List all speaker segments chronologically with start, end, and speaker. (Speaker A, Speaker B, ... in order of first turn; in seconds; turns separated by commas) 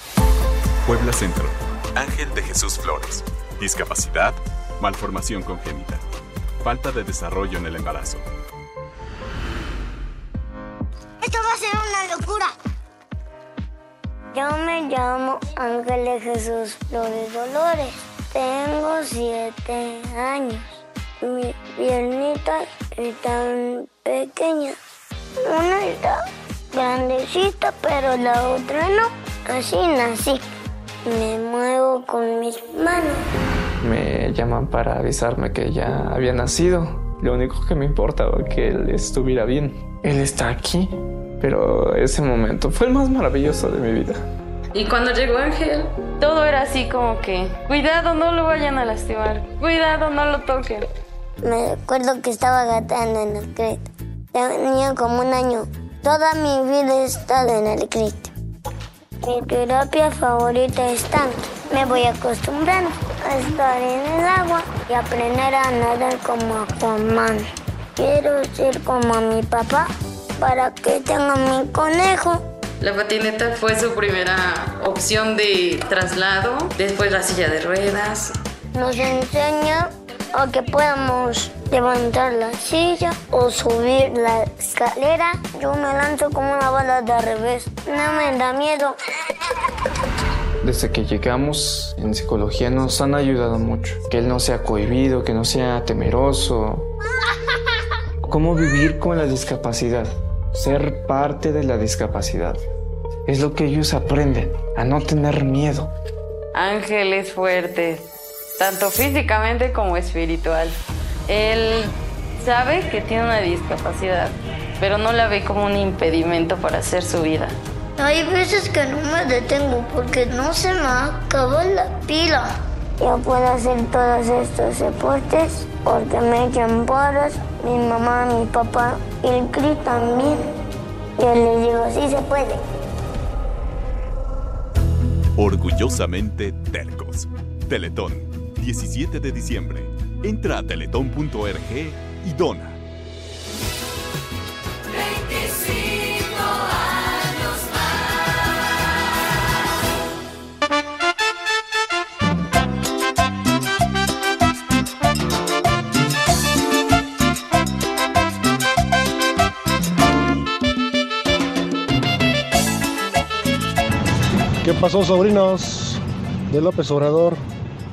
Speaker A: 0.8-6.0, Speaker A: 6.6-8.3, Speaker B: 14.3-24.8, Speaker B: 25.4-26.2, Speaker B: 26.7-30.4, Speaker B: 31.1-33.2, Speaker C: 33.8-44.2, Speaker D: 44.8-50.9, Speaker B: 51.4-58.3, Speaker B: 59.2-67.4, Speaker B: 68.0-72.4, Speaker D: 72.8-78.4, Speaker B: 78.7-89.0, Speaker C: 90.6-96.9, Speaker C: 98.2-102.6, Speaker C: 103.3-105.9, Speaker D: 106.5-117.6, Speaker B: 118.0-122.5, Speaker B: 123.0-130.4, Speaker B: 131.2-132.6, Speaker A: 135.4-142.8, Speaker E: 164.6-167.4